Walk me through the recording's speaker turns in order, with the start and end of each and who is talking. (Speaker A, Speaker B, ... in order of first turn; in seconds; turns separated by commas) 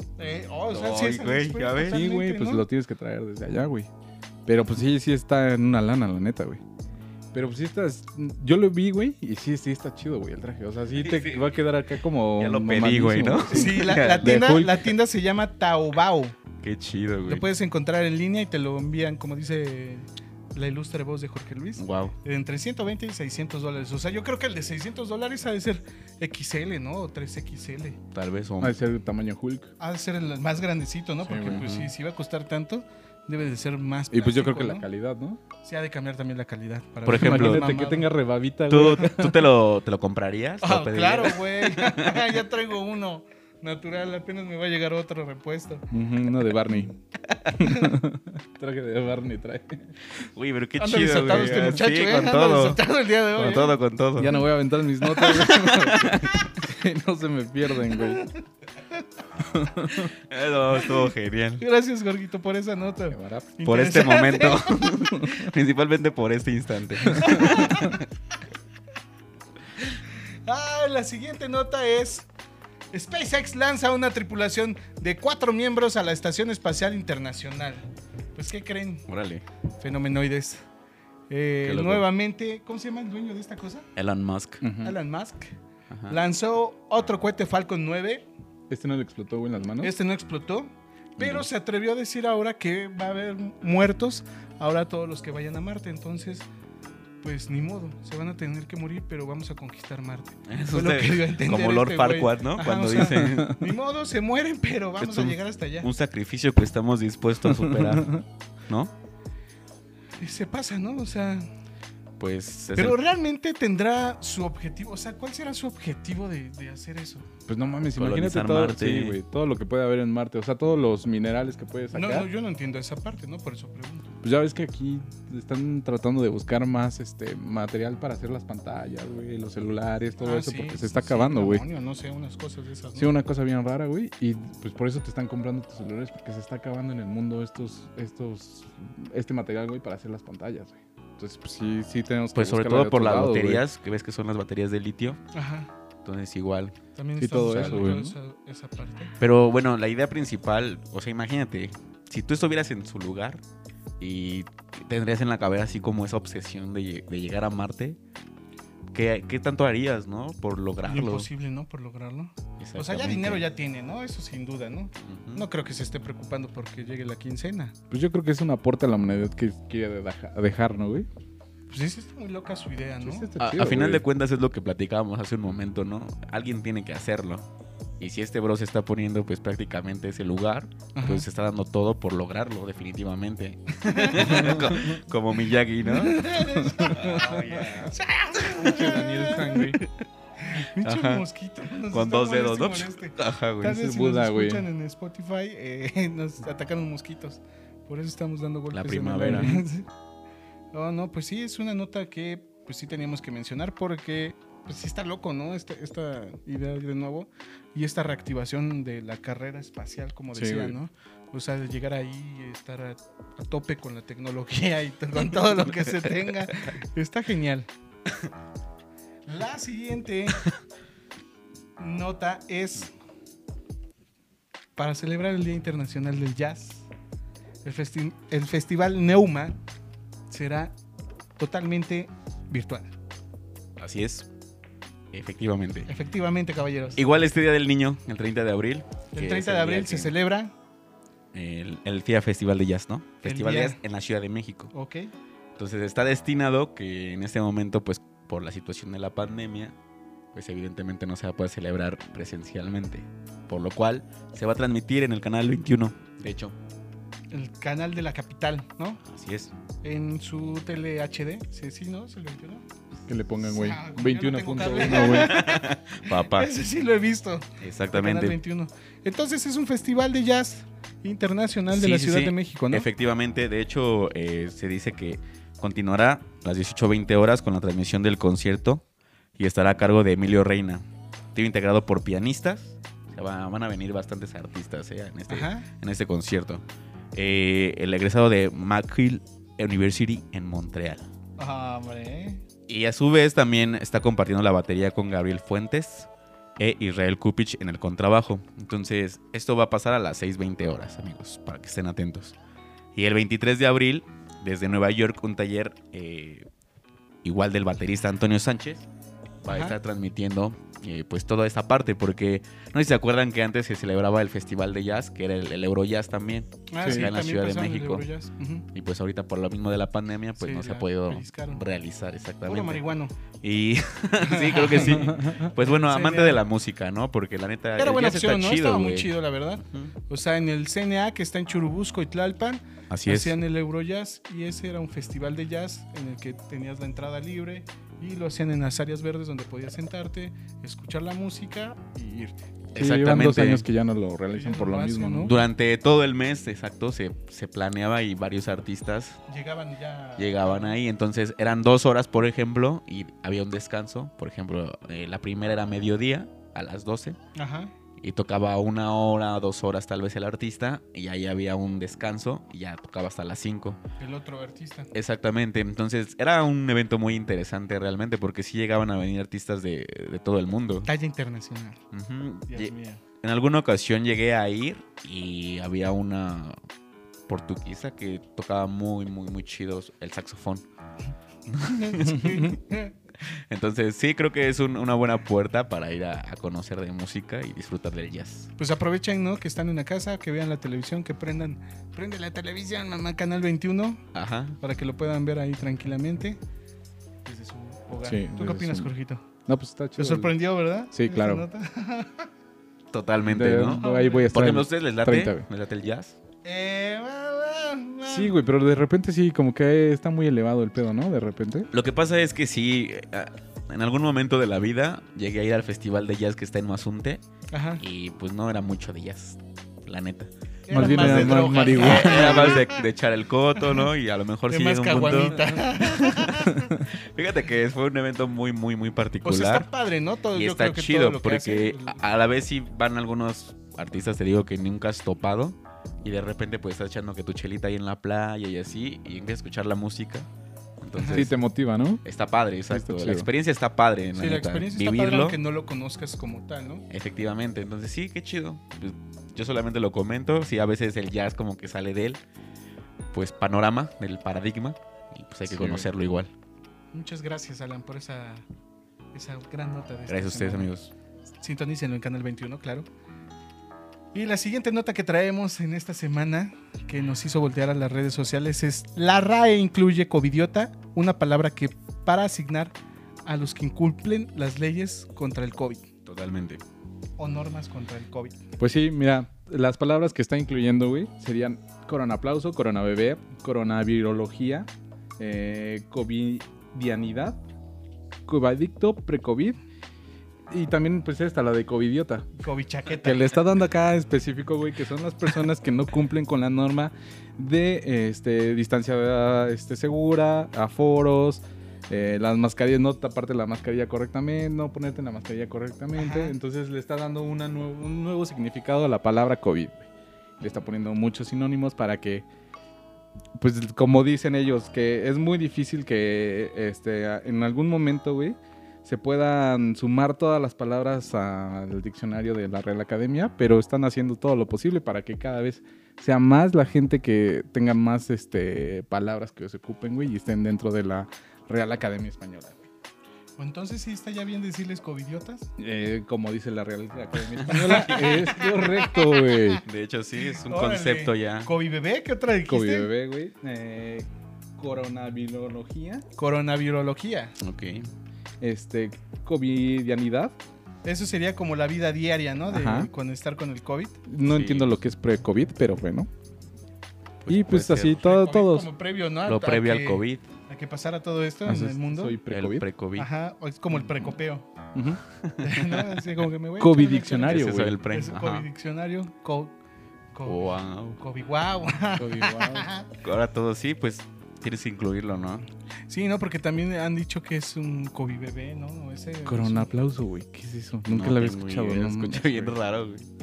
Speaker A: 0.2-2.6, Speaker B: 0.7-2.0, Speaker C: 1.9-3.9, Speaker C: 4.5-6.6, Speaker C: 7.3-14.8, Speaker B: 11.0-11.5, Speaker B: 12.4-14.7, Speaker A: 13.5-16.4, Speaker B: 16.6-17.4, Speaker A: 17.3-28.0, Speaker B: 21.8-22.1, Speaker B: 28.1-28.8, Speaker C: 28.6-29.7, Speaker A: 29.8-34.9, Speaker C: 31.2-31.7, Speaker B: 31.4-31.9, Speaker C: 34.1-35.4, Speaker A: 35.6-38.1, Speaker B: 37.0-37.7, Speaker C: 37.1-39.4, Speaker B: 38.7-42.4, Speaker A: 40.6-45.9, Speaker C: 45.9-46.9, Speaker C: 47.6-49.9, Speaker A: 47.6-48.0, Speaker B: 50.2-52.8, Speaker A: 50.8-53.8, Speaker C: 51.3-51.7, Speaker B: 53.3-54.4, Speaker C: 54.2-58.2, Speaker B: 55.2-56.5, Speaker A: 57.9-58.4, Speaker C: 59.5-60.1, Speaker B: 60.2-61.6, Speaker A: 60.8-65.0, Speaker C: 63.1-63.5, Speaker B: 63.6-68.0, Speaker A: 67.1-68.0, Speaker A: 70.0-72.3, Speaker A: 72.9-79.1, Speaker B: 79.1-79.4, Speaker A: 79.8-80.6, Speaker A: 81.3-83.9, Speaker B: 81.6-82.0, Speaker B: 84.0-84.6, Speaker C: 84.6-85.0, Speaker A: 84.8-85.6, Speaker B: 85.9-86.2, Speaker A: 86.1-88.3, Speaker C: 88.7-89.9, Speaker A: 89.8-96.5, Speaker B: 91.2-91.5, Speaker A: 97.2-105.9, Speaker B: 100.5-103.6, Speaker B: 105.0-108.9, Speaker C: 107.5-108.2, Speaker A: 110.2-111.5, Speaker B: 112.2-113.0, Speaker A: 112.8-117.3, Speaker C: 117.5-122.3, Speaker B: 118.0-119.2, Speaker A: 121.9-124.1, Speaker C: 124.2-131.7, Speaker A: 130.2-133.1, Speaker C: 133.0-143.7, Speaker B: 142.3-145.2, Speaker A: 145.3-145.7, Speaker B: 146.1-146.8, Speaker A: 146.9-149.1, Speaker C: 147.2-148.2, Speaker B: 147.5-147.9, Speaker B: 149.2-153.4, Speaker B: 154.0-158.0, Speaker B: 158.9-161.3, Speaker A: 160.8-167.8, Speaker B: 162.6-163.4, Speaker B: 165.0-165.5, Speaker C: 167.9-171.1, Speaker A: 171.7-173.3, Speaker C: 173.0-174.0, Speaker B: 173.4-177.5, Speaker B: 178.0-188.0, Speaker A: 180.9-181.3, Speaker A: 183.9-184.6, Speaker C: 184.3-184.9, Speaker A: 185.8-189.8, Speaker C: 186.8-187.7, Speaker C: 188.5-189.8, Speaker A: 190.4-199.9, Speaker B: 190.8-191.3, Speaker B: 191.9-193.8, Speaker C: 193.7-194.7, Speaker B: 198.7-199.6, Speaker C: 199.2-199.6, Speaker A: 200.7-217.7, Speaker C: 210.3-210.8, Speaker A: 219.3-220.4, Speaker A: 221.8-222.9, Speaker A: 224.8-226.9, Speaker A: 227.6-229.6, Speaker A: 230.3-230.7, Speaker A: 231.4-232.9, Speaker B: 233.8-234.3, Speaker B: 235.1-235.9, Speaker A: 235.9-237.0, Speaker B: 237.0-240.1, Speaker A: 239.1-240.5, Speaker B: 241.3-244.7, Speaker A: 243.2-243.8, Speaker A: 244.7-245.1, Speaker B: 245.6-249.8, Speaker B: 250.3-256.6, Speaker A: 257.3-259.0, Speaker B: 259.1-259.5, Speaker A: 259.8-262.6, Speaker C: 263.1-265.4, Speaker A: 263.4-272.9, Speaker B: 264.9-266.6, Speaker B: 267.6-268.4, Speaker B: 271.7-278.8, Speaker B: 279.4-280.8, Speaker B: 281.4-291.1, Speaker A: 285.3-285.7, Speaker A: 291.4-292.4, Speaker B: 292.7-302.4, Speaker B: 302.9-306.5, Speaker B: 307.2-308.9, Speaker B: 309.4-318.1, Speaker A: 309.5-309.8, Speaker A: 316.7-318.7, Speaker C: 316.8-317.1, Speaker B: 318.7-322.8, Speaker A: 320.4-321.6, Speaker A: 322.4-323.1, Speaker B: 323.4-329.2, Speaker A: 324.2-326.4, Speaker C: 324.9-325.5, Speaker A: 327.8-342.5, Speaker B: 332.9-333.4, Speaker B: 342.7-343.6, Speaker C: 342.8-345.4, Speaker A: 344.3-345.4, Speaker B: 345.2-349.2, Speaker A: 349.3-350.8, Speaker B: 350.2-357.2, Speaker A: 357.4-357.7, Speaker B: 358.0-363.8, Speaker A: 364.0-364.9, Speaker B: 364.9-370.9, Speaker A: 370.9-371.8, Speaker B: 371.9-376.6, Speaker A: 372.5-373.0, Speaker B: 377.3-380.6, Speaker B: 381.5-382.6, Speaker A: 381.7-382.9, Speaker B: 383.3-388.5, Speaker A: 388.6-394.0, Speaker B: 394.1-394.6, Speaker A: 394.6-396.4, Speaker A: 397.3-399.3, Speaker C: 398.0-398.9, Speaker C: 399.5-400.4, Speaker A: 400.0-402.3, Speaker C: 400.9-401.4, Speaker B: 402.9-406.2, Speaker C: 403.3-405.4, Speaker A: 403.8-404.3, Speaker A: 406.4-408.4, Speaker C: 408.1-411.7, Speaker B: 411.7-417.2, Speaker A: 417.5-417.8, Speaker B: 417.8-429.7, Speaker A: 420.7-422.8, Speaker C: 420.7-422.7, Speaker A: 424.5-426.7, Speaker A: 429.2-432.0, Speaker B: 430.3-440.3, Speaker B: 440.8-441.4, Speaker A: 440.9-441.3, Speaker C: 441.1-442.0, Speaker B: 442.0-445.4, Speaker C: 442.7-443.3, Speaker A: 444.2-446.8, Speaker B: 446.9-452.2, Speaker B: 453.1-456.3, Speaker C: 455.5-455.9, Speaker A: 456.9-458.4, Speaker A: 459.1-460.7, Speaker B: 460.1-460.9, Speaker A: 461.4-462.9, Speaker A: 464.1-472.7, Speaker A: 473.3-475.9, Speaker B: 476.1-476.6, Speaker A: 477.2-478.4, Speaker C: 478.6-487.4, Speaker C: 488.3-489.6, Speaker C: 490.5-492.3, Speaker A: 492.4-493.3, Speaker C: 492.9-509.9, Speaker A: 506.0-506.4, Speaker C: 510.4-512.3, Speaker C: 513.4-532.6, Speaker A: 533.4-535.5, Speaker C: 535.6-539.6, Speaker A: 537.5-538.8, Speaker B: 539.6-541.5, Speaker A: 540.3-542.9, Speaker C: 542.5-546.0, Speaker A: 546.2-547.3, Speaker B: 547.4-547.9, Speaker C: 548.4-550.4, Speaker A: 550.9-554.0, Speaker C: 552.5-552.9, Speaker C: 554.1-556.1, Speaker B: 554.3-554.8, Speaker B: 557.2-558.0, Speaker C: 557.3-558.7, Speaker A: 558.0-562.2, Speaker B: 559.2-560.3, Speaker C: 561.5-562.7, Speaker B: 562.3-563.1, Speaker A: 563.0-564.5, Speaker C: 564.7-565.0, Speaker B: 565.2-566.1, Speaker A: 565.4-569.6, Speaker C: 566.6-567.8, Speaker B: 567.2-568.5, Speaker A: 570.1-572.9, Speaker B: 570.3-571.0, Speaker C: 572.0-572.7, Speaker B: 573.0-575.5, Speaker A: 575.9-579.7, Speaker C: 579.2-582.5, Speaker B: 580.9-583.1